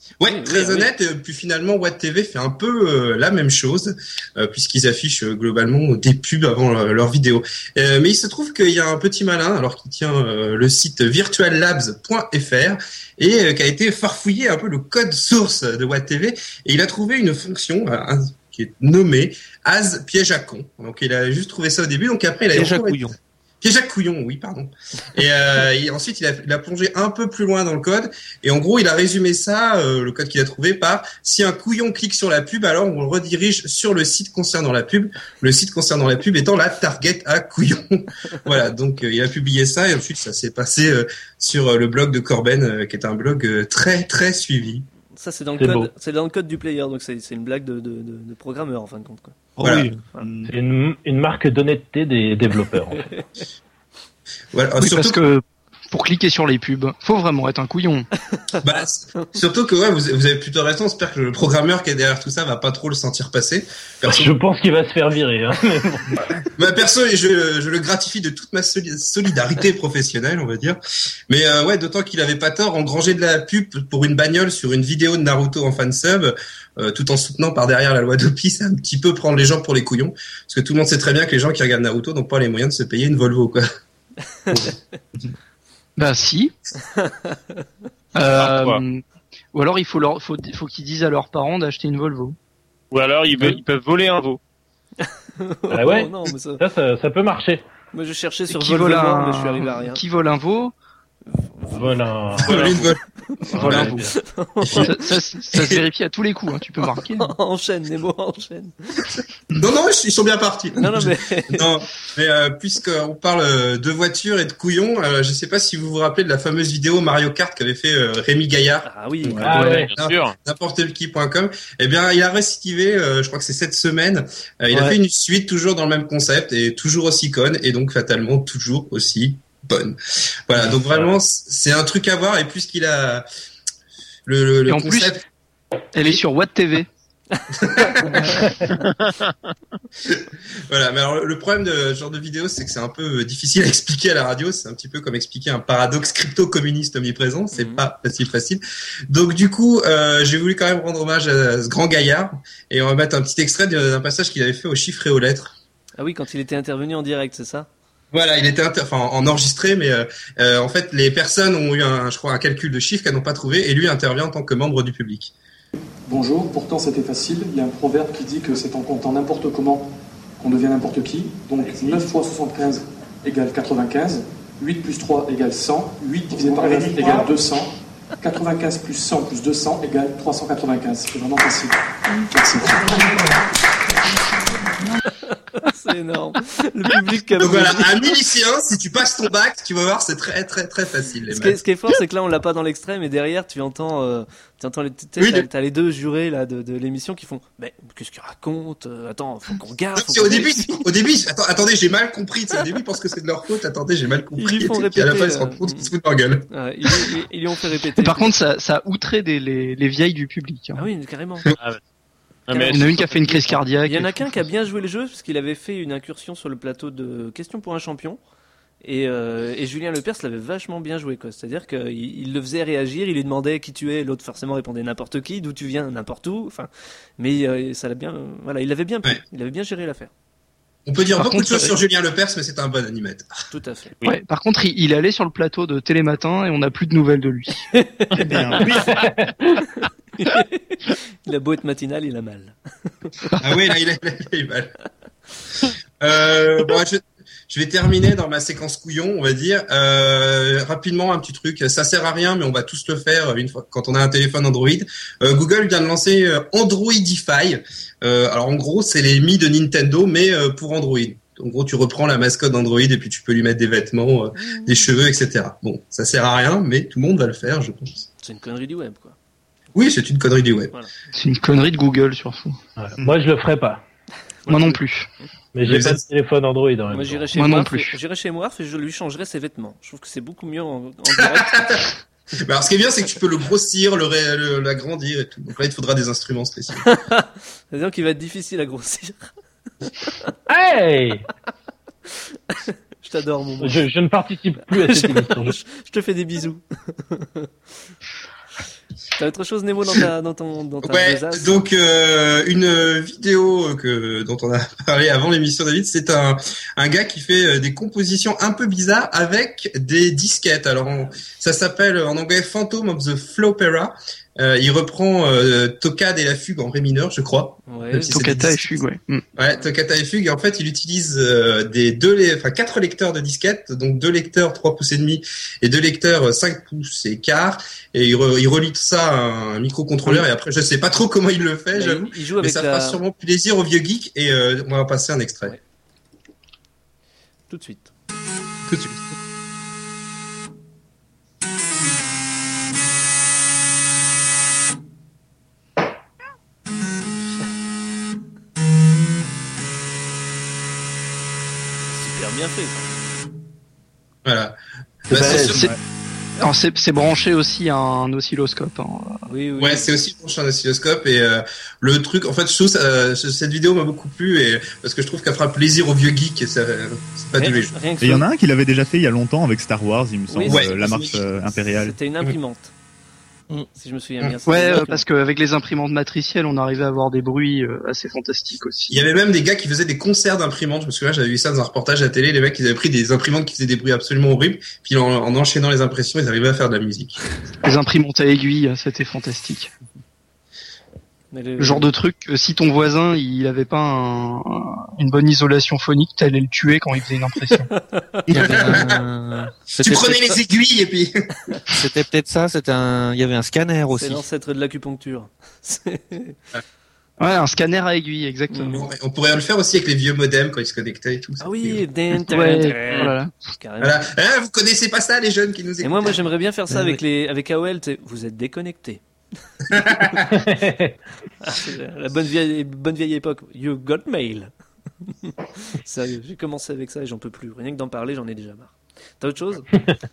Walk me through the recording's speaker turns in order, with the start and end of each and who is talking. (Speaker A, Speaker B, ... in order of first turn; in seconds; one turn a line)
Speaker A: 0.2-44.9
Speaker B: 0.2-0.9
Speaker C: 22.5-23.1
Speaker B: 45.2-49.4
Speaker D: 45.6-45.9
Speaker C: 49.6-50.0
Speaker A: 49.6-49.9
Speaker E: 50.2-50.5
Speaker D: 50.5-53.0
Speaker B: 52.9-53.2
Speaker A: 54.5-55.2
Speaker F: 54.8-58.1
Speaker A: 58.6-64.3
Speaker D: 64.0-66.3
Speaker A: 66.5-83.6
Speaker F: 86.0-86.5
Speaker B: 86.9-87.6
Speaker F: 88.1-89.0
Speaker G: 88.3-88.8
Speaker F: 89.5-92.3
Speaker G: 92.9-94.4
Speaker B: 95.0-96.6
Speaker D: 95.7-97.6
Speaker B: 97.9-100.0
Speaker F: 98.5-100.7
Speaker B: 101.3-101.9
Speaker D: 101.7-102.8
Speaker A: 102.4-103.0
Speaker B: 102.5-102.8
Speaker B: 103.3-105.1
Speaker D: 103.5-104.1
Speaker A: 103.6-103.9
Speaker F: 103.7-104.0
Speaker F: 104.8-107.3
Speaker A: 105.5-105.8
Speaker B: 107.2-108.7
Speaker A: 109.5-133.2
Speaker B: 110.8-111.7
Speaker B: 118.8-119.8
Speaker D: 119.4-119.9
Speaker F: 119.5-119.8
Speaker G: 119.7-120.3
Speaker A: 134.2-135.2
Speaker F: 134.7-135.2
Speaker F: 135.9-136.9
Speaker A: 137.5-138.4
Speaker D: 138.4-138.7
Speaker A: 140.0-155.6
Speaker B: 147.5-147.8
Speaker B: 156.0-157.7
Speaker A: 158.1-165.3
Speaker H: 166.1-169.9
Speaker H: 170.4-177.7
Speaker H: 178.2-181.8
Speaker H: 182.3-183.1
Speaker B: 185.3-188.0
Speaker A: 187.4-191.6
Speaker B: 191.3-200.8
Speaker A: 195.2-195.5
Speaker A: 199.9-207.0
Speaker B: 204.4-205.9
Speaker B: 206.5-208.3
Speaker F: 208.0-210.9
Speaker B: 210.8-211.5
Speaker G: 212.5-213.6
Speaker B: 212.5-218.2
Speaker F: 212.6-214.2
Speaker B: 218.8-230.1
Speaker A: 230.8-233.4
Speaker F: 231.2-231.7
Speaker B: 233.5-233.9
Speaker F: 234.0-237.7
Speaker B: 237.7-238.7
Speaker E: 238.2-239.0
Speaker D: 238.9-239.6
Speaker B: 239.8-242.6
Speaker A: 243.4-244.7
Speaker A: 246.0-268.1
Speaker B: 264.4-264.9
Speaker B: 268.2-269.1
Speaker A: 269.7-270.7
Speaker F: 271.1-272.6
Speaker D: 272.8-273.8
Speaker B: 274.4-274.8
Speaker F: 274.5-275.1
Speaker D: 275.5-277.3
Speaker A: 275.6-276.0
Speaker B: 276.9-281.8
Speaker F: 277.3-277.9
Speaker A: 281.1-286.8
Speaker B: 286.8-289.2
Speaker D: 290.5-291.2
Speaker B: 292.5-293.8
Speaker D: 293.6-295.6
Speaker B: 294.7-297.5
Speaker B: 299.1-301.7
Speaker A: 300.8-318.7
Speaker B: 317.7-318.2
Speaker F: 318.0-319.2
Speaker A: 319.4-335.6
Speaker B: 331.7-333.0
Speaker B: 337.5-337.9
Speaker A: 338.7-339.1
Speaker B: 351.9-353.2
Speaker A: 354.2-354.6
Speaker A: 355.1-355.6
Speaker D: 355.1-355.6
Speaker F: 355.2-355.7
Speaker E: 355.5-355.8
Speaker F: 356.4-359.2
Speaker B: 359.2-360.1
Speaker A: 359.6-367.7
Speaker B: 367.4-368.2
Speaker E: 368.0-371.9
Speaker B: 370.3-370.7
Speaker A: 370.4-371.2
Speaker B: 371.7-372.7
Speaker B: 373.7-375.0
Speaker F: 374.4-379.0
Speaker A: 378.9-387.2
Speaker F: 387.6-389.7
Speaker B: 391.3-391.9
Speaker F: 391.6-397.7
Speaker B: 397.9-398.9
Speaker A: 398.3-398.9
Speaker C: 398.3-400.4
Speaker A: 399.8-401.1
Speaker C: 401.7-404.2
Speaker B: 403.9-406.4
Speaker F: 407.2-408.8
Speaker B: 408.5-408.8
Speaker A: 408.7-411.8
Speaker B: 411.4-414.0
Speaker F: 412.3-413.3
Speaker A: 413.8-416.2
Speaker B: 415.8-419.0
Speaker B: 419.7-420.2
Speaker A: 419.7-420.2
Speaker D: 420.3-420.9
Speaker B: 421.4-424.5
Speaker B: 425.0-429.7